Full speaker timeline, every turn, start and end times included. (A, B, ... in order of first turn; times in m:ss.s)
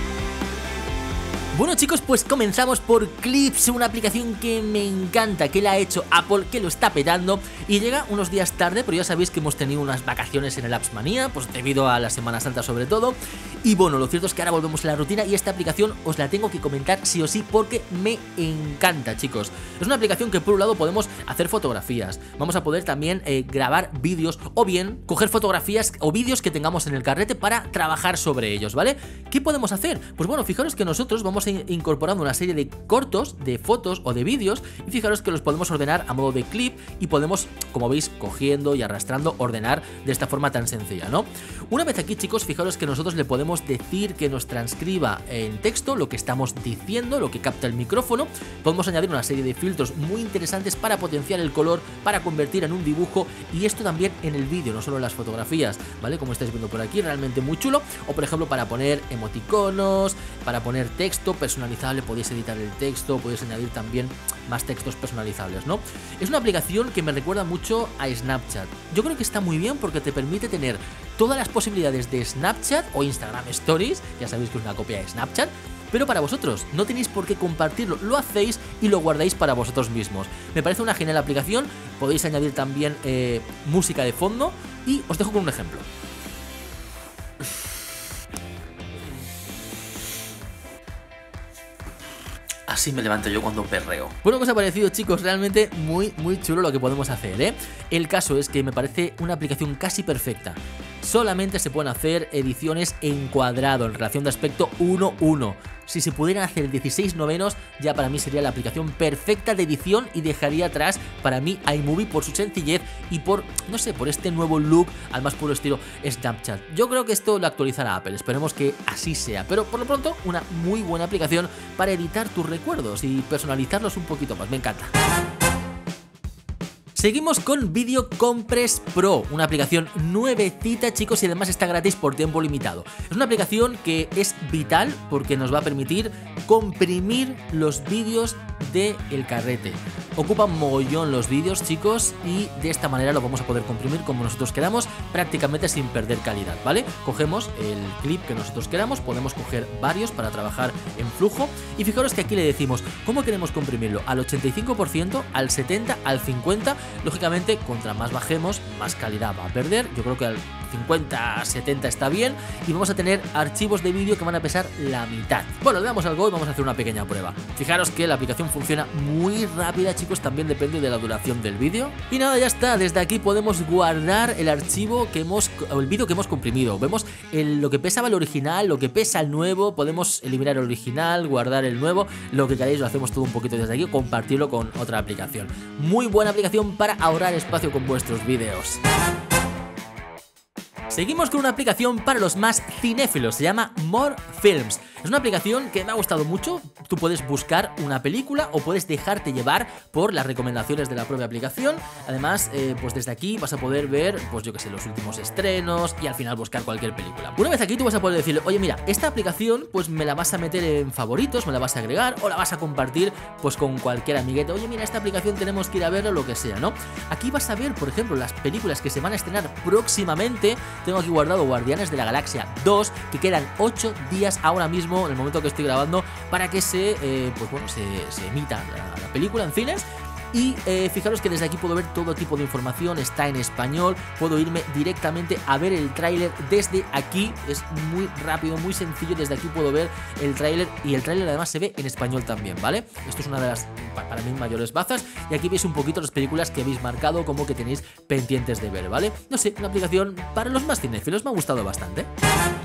0:01.5-1:25.9 A
1:32.7-2:04.9 A
2:07.0-3:08.8 A
3:10.9-4:12.1 A